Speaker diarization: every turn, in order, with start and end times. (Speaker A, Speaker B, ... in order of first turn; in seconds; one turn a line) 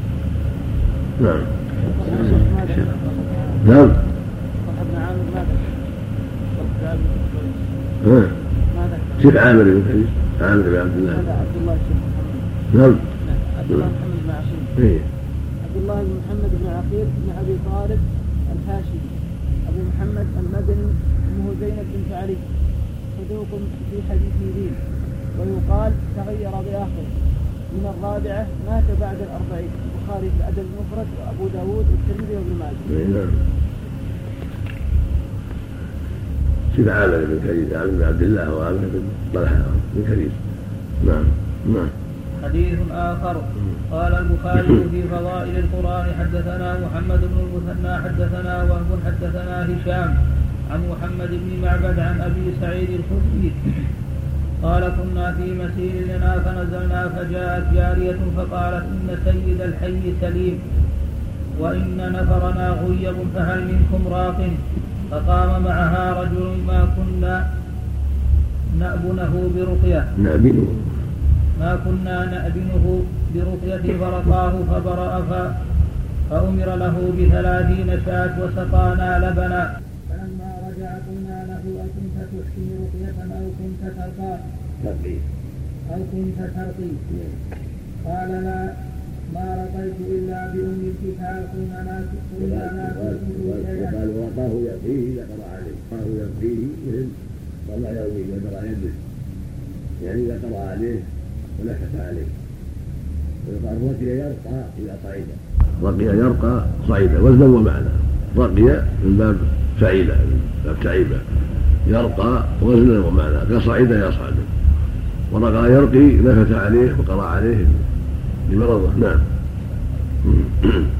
Speaker A: 1.2-1.5
Speaker B: 1.8-3.6
Speaker A: 3.6-4.0
Speaker B: 4.6-5.7
Speaker B: 6.5-7.7
Speaker A: 8.0-8.3
Speaker B: 8.7-9.4
Speaker A: 9.2-11.4
Speaker B: 11.1-12.4
Speaker A: 12.7-13.0
Speaker B: 13.2-14.7
Speaker A: 14.8-15.1
Speaker B: 15.6-19.1
Speaker B: 19.7-22.4
Speaker B: 23.1-24.8
Speaker B: 25.4-27.1
Speaker B: 27.7-32.9
Speaker A: 32.9-33.4
Speaker A: 36.7-40.4
Speaker A: 41.0-41.9
Speaker C: 42.4-50.1
Speaker C: 50.7-53.6
Speaker C: 54.6-60.6
Speaker C: 61.6-64.6
Speaker C: 65.1-67.4
Speaker C: 68.8-70.1
Speaker A: 70.2-70.9
Speaker C: 71.6-75.5
Speaker C: 76.3-84.4
Speaker A: 84.8-85.2
Speaker C: 85.9-87.0
Speaker A: 87.1-87.3
Speaker C: 88.0-88.7
Speaker C: 89.3-94.0
Speaker A: 92.4-99.0
Speaker A: 100.0-102.3
Speaker A: 103.4-111.3
Speaker A: 111.8-114.5
Speaker A: 115.3-117.8
Speaker A: 118.5-119.2
Speaker A: 120.2-120.9